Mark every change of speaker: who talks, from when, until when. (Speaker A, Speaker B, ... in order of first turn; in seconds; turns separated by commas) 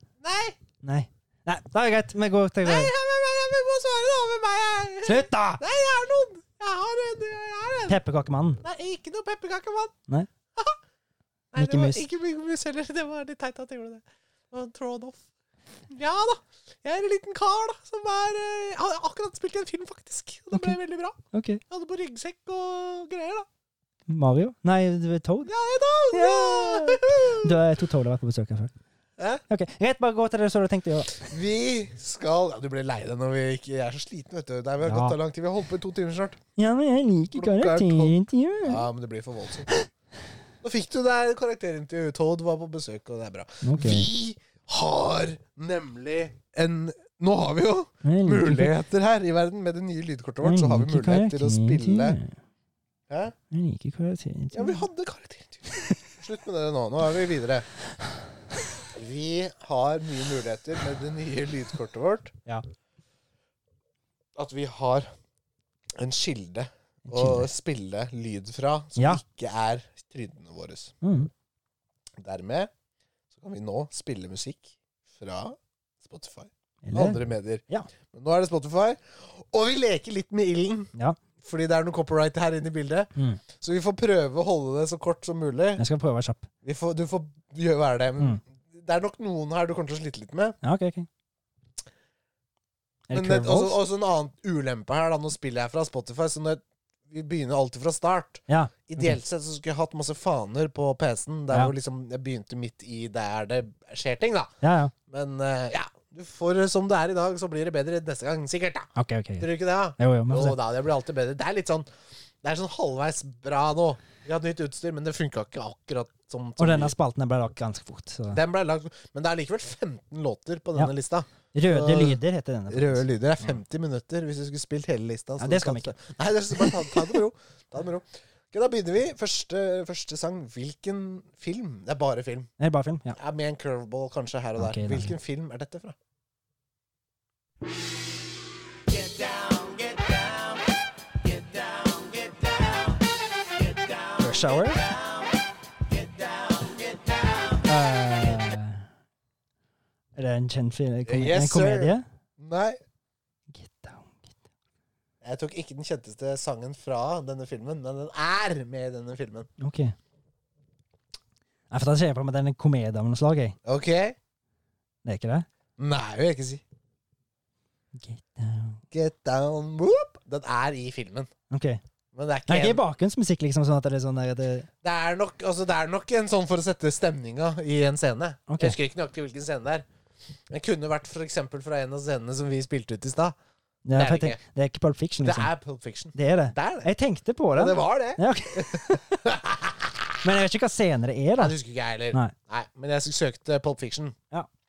Speaker A: 0.2-0.6, Speaker B: 0.8-2.9, Speaker A: 2.6-8.0, Speaker B: 5.0-5.6, Speaker B: 7.9-8.6, Speaker A: 8.6-9.9, Speaker A: 11.5-15.2, Speaker B: 11.6-12.0, Speaker A: 15.9-23.5, Speaker B: 21.3-21.6, Speaker B: 24.1-25.5, Speaker A: 25.4-27.6, Speaker B: 26.1-28.7, Speaker A: 29.2-29.4, Speaker B: 29.5-31.3, Speaker A: 31.1-36.4, Speaker B: 34.8-35.2, Speaker B: 36.6-38.8, Speaker A: 37.3-39.7, Speaker A: 40.6-52.2, Speaker B: 43.6-44.1, Speaker B: 48.0-48.8, Speaker B: 50.4-52.4, Speaker A: 53.1-53.4, Speaker B: 53.5-54.9, Speaker A: 54.5-57.7, Speaker A: 58.9-62.3, Speaker A: 64.4-65.1, Speaker A: 66.0-70.9, Speaker B: 67.1-67.5, Speaker B: 69.0-69.2, Speaker B: 71.0-71.3, Speaker A: 72.2-72.7, Speaker A: 73.3-85.8, Speaker B: 76.8-77.9, Speaker B: 83.2-83.4, Speaker B: 85.8-86.5, Speaker A: 86.6-90.6, Speaker B: 90.6-91.1, Speaker B: 93.1-93.8, Speaker A: 93.1-104.5, Speaker B: 98.5-99.2, Speaker B: 104.6-104.9, Speaker A: 105.1-111.9, Speaker B: 109.0-110.6, Speaker A: 112.4-117.0, Speaker B: 116.6-118.4, Speaker A: 118.3-132.5, Speaker B: 121.5-123.5, Speaker B: 125.4-125.9, Speaker B: 126.5-127.0, Speaker B: 132.6-133.2, Speaker A: 133.2-135.9, Speaker B: 134.6-135.2, Speaker A: 139.2-140.1, Speaker A: 141.7-142.3, Speaker B: 144.2-144.9, Speaker B: 147.6-148.9, Speaker B: 150.2-152.1, Speaker A: 151.1-152.8, Speaker B: 153.5-154.4, Speaker A: 155.2-159.5, Speaker B: 159.6-159.9, Speaker B: 161.7-163.6, Speaker A: 163.7-164.2, Speaker B: 165.1-165.5, Speaker A: 165.8-166.6, Speaker B: 167.9-168.8, Speaker A: 168.9-171.3, Speaker B: 171.5-171.8, Speaker A: 172.1-172.8, Speaker B: 172.5-174.7, Speaker A: 174.8-179.9, Speaker B: 178.5-178.8, Speaker A: 180.5-183.4, Speaker B: 183.8-185.5, Speaker A: 183.9-184.4, Speaker A: 185.2-186.9, Speaker B: 186.2-189.2, Speaker A: 187.6-190.2, Speaker B: 190.2-191.6, Speaker A: 191.4-194.2